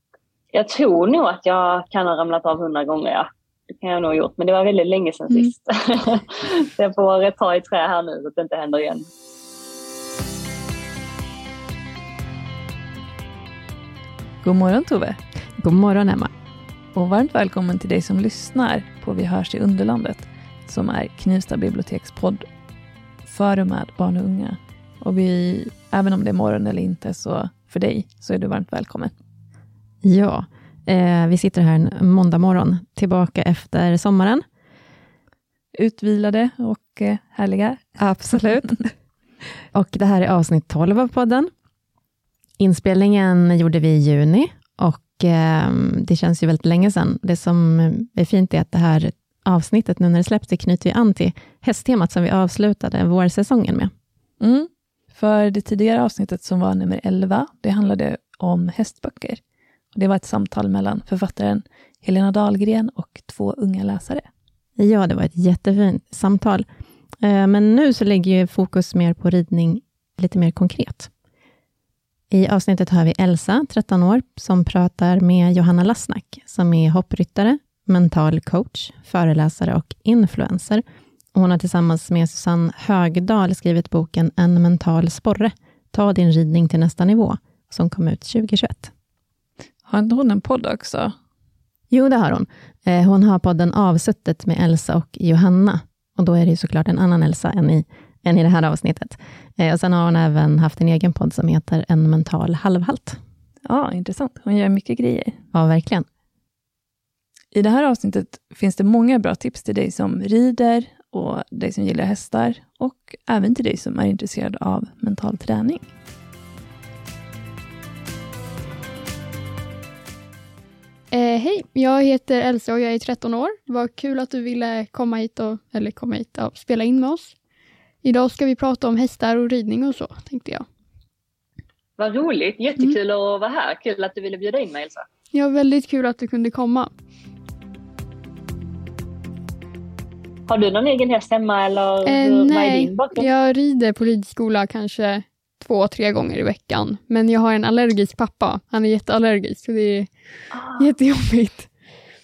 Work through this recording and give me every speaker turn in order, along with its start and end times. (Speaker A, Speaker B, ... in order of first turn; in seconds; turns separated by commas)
Speaker A: 0.5-3.3, Speaker A: 3.8-9.1, Speaker B: 14.4-15.2, Speaker C: 15.6-16.3, Speaker B: 16.9-22.4, Speaker B: 23.2-29.1, Speaker C: 30.0-34.4, Speaker B: 35.7-38.0, Speaker C: 38.0-38.9, Speaker C: 39.7-41.5, Speaker C: 42.6-53.9, Speaker B: 54.4-59.4, Speaker B: 59.9-64.3, Speaker C: 64.8-66.7, Speaker C: 67.2-71.1, Speaker C: 72.3-80.8, Speaker C: 81.3-88.9, Speaker B: 89.8-91.1, Speaker C: 91.9-103.2, Speaker B: 103.6-105.4, Speaker C: 105.5-106.0, Speaker B: 107.5-115.8, Speaker D: 121.1-127.3, Speaker D: 128.0-130.7, Speaker A: 132.0-135.1, Speaker D: 135.3-136.9, Speaker A: 140.5-143.3, Speaker D: 142.0-150.1, Speaker A: 150.5-150.9, Speaker D: 150.8-151.7